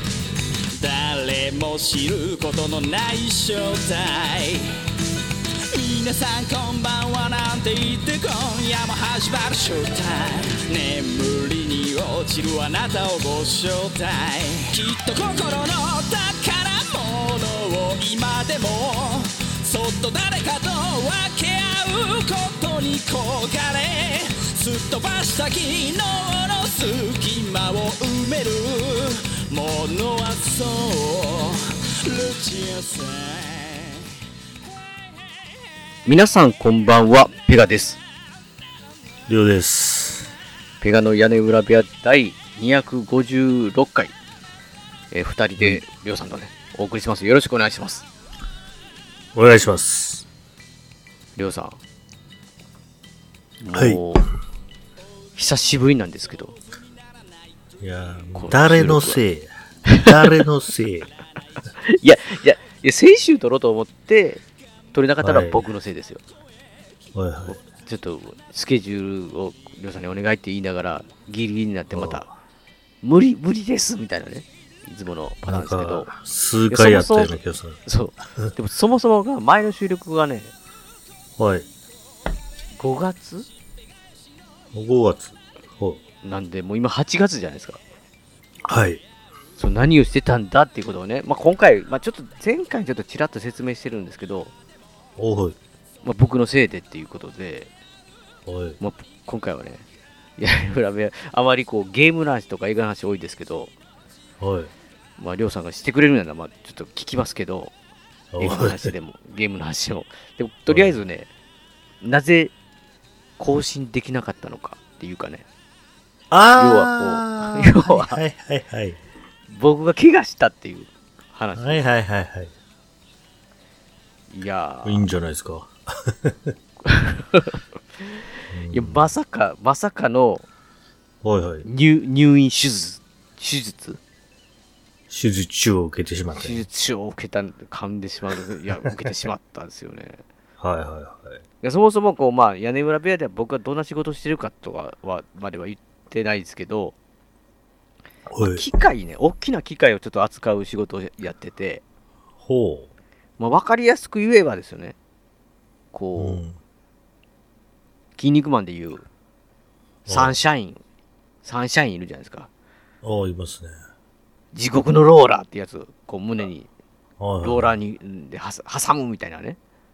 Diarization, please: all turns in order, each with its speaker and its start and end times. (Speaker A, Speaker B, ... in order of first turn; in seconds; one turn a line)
Speaker A: 0.8-4.7
Speaker A: 5.7-34.0
Speaker B: 36.1-38.0
Speaker C: 39.3-40.3
Speaker B: 40.8-44.1
Speaker B: 45.1-48.1
Speaker C: 49.3-50.3
Speaker B: 51.4-51.8
Speaker B: 53.6-54.3
Speaker C: 53.7-54.0
Speaker B: 55.4-56.6
Speaker C: 57.8-59.5
Speaker B: 58.3-59.2
Speaker B: 59.9-60.4
Speaker C: 60.0-61.1
Speaker B: 61.8-64.4
Speaker B: 64.9-66.2
Speaker C: 65.2-65.6
Speaker C: 67.2-67.6
Speaker B: 67.5-72.3
Speaker C: 71.9-72.3
Speaker B: 73.0-76.1
Speaker C: 75.5-77.8
Speaker B: 76.7-80.5
Speaker C: 81.4-81.7
Speaker B: 82.8-83.5
Speaker C: 84.7-86.0
Speaker B: 86.2-87.8
Speaker C: 88.7-89.0
Speaker B: 89.6-94.5
Speaker C: 95.2-95.6
Speaker B: 96.0-97.7
Speaker C: 98.5-98.8
Speaker B: 98.8-99.8
Speaker B: 100.4-103.7
Speaker C: 104.4-104.7
Speaker B: 105.2-107.7
Speaker C: 108.3-108.9
Speaker B: 108.4-111.3
Speaker C: 110.7-110.9
Speaker B: 112.0-112.5
Speaker B: 113.4-115.5
Speaker C: 116.3-119.0
Speaker B: 116.6-118.2
Speaker B: 119.5-121.8
Speaker C: 121.6-122.5
Speaker B: 124.3-125.1
Speaker C: 124.8-126.5
Speaker B: 126.8-128.2
Speaker C: 128.5-129.1
Speaker B: 128.7-130.5
Speaker C: 131.2-131.7
Speaker B: 131.6-134.0
Speaker C: 135.1-136.6
Speaker B: 136.3-140.2
Speaker C: 140.6-141.4
Speaker B: 141.6-146.9
Speaker C: 148.3-148.7
Speaker B: 148.4-151.8
Speaker C: 152.4-152.9
Speaker B: 153.4-155.0
Speaker B: 155.9-156.4
Speaker C: 156.2-156.6
Speaker B: 158.2-159.1
Speaker C: 160.1-160.3
Speaker B: 160.1-160.8
Speaker B: 161.4-162.5
Speaker C: 163.0-163.8
Speaker B: 164.5-166.7
Speaker C: 167.2-167.7
Speaker B: 167.4-169.6